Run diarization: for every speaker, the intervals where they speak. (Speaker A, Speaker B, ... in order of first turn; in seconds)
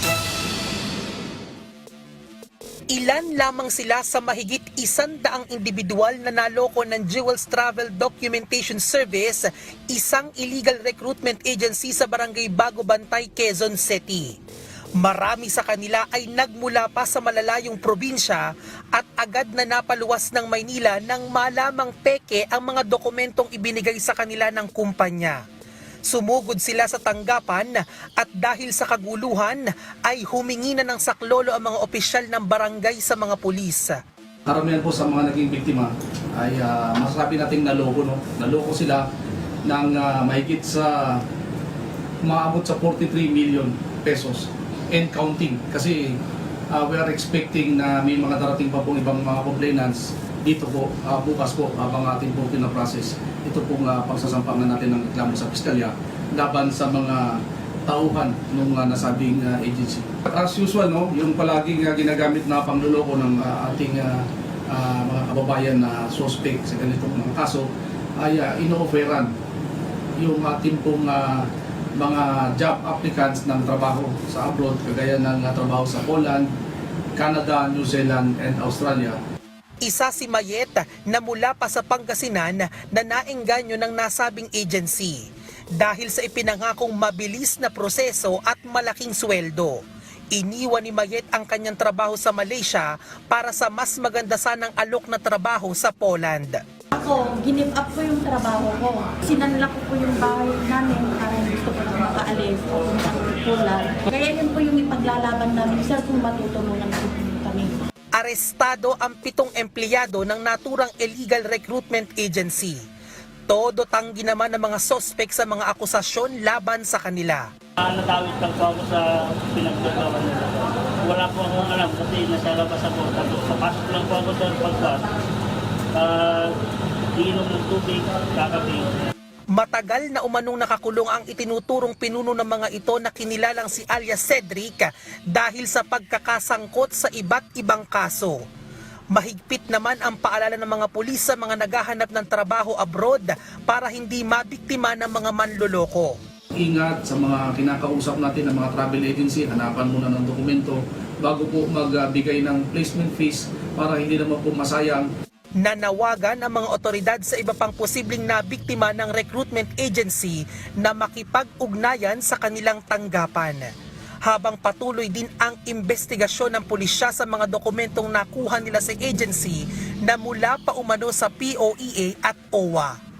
Speaker A: 2.9-14.4, 15.0-25.4, 26.1-34.0, 79.8-85.2, 85.8-89.8, 90.3-96.6, 108.2-112.8, 113.5-117.5, 129.5-138.4, 139.1-146.1, 155.6-163.7, 164.2-172.9
Speaker B: 34.5-39.1, 39.6-41.2, 42.2-46.2, 46.7-69.3, 70.2-76.5, 77.2-79.2, 146.6-155.1
Speaker C: 96.9-107.8
Speaker D: 117.8-125.1, 125.9-126.5, 127.2-129.0